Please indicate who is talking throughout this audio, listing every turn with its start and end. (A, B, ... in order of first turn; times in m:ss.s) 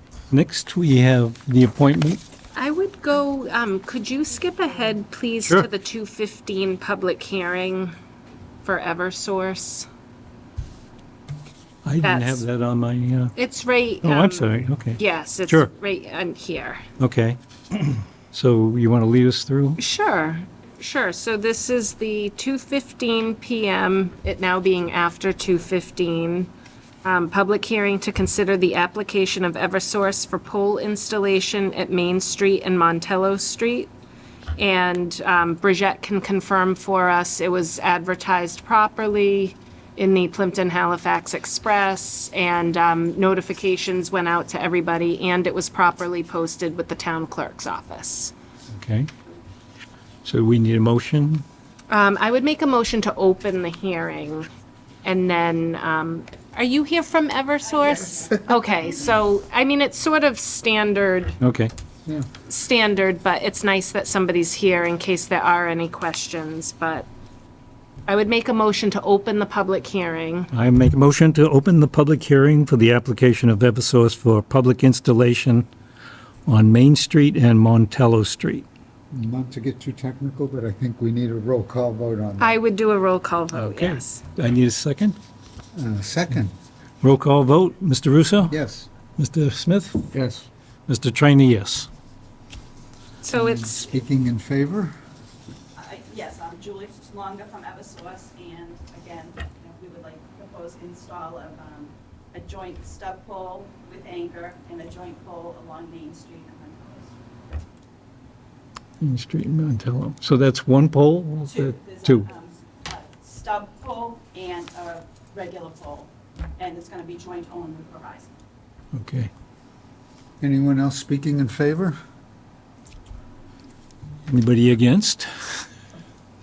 0:00.3-0:02.2 A
0:02.5-0:07.9 B
0:08.6-0:09.9 B
0:11.8-0:13.3 A
0:12.0-0:12.4 B
0:13.4-0:16.8 B
0:14.0-0:15.7 A
0:17.0-0:19.8 A
0:19.8-0:26.5 B
0:27.0-0:33.9 B
0:34.6-0:48.3 B
0:48.7-0:49.1 A
0:50.2-0:51.4 A
0:51.9-0:54.5 B
0:55.0-1:01.4 B
0:58.1-0:58.5 C
1:01.4-1:01.7 A
1:02.5-1:07.1 B
1:08.1-1:10.5 B
1:10.5-1:15.7 A
1:16.5-1:18.7 A
1:19.1-1:22.6 C
1:22.4-1:24.2 B
1:23.5-1:25.2 A
1:25.7-1:26.5 C
1:27.0-1:28.6 A
1:28.5-1:28.9 C
1:29.2-1:30.2 A
1:30.1-1:30.4 C
1:30.9-1:31.9 A
1:33.2-1:33.9 B
1:33.3-1:34.9 C
1:35.8-1:47.2 D
1:49.0-1:52.2 A
1:51.5-1:58.3 D
1:58.9-1:59.3 A
2:00.4-2:02.0 C
2:04.3-2:05.6 A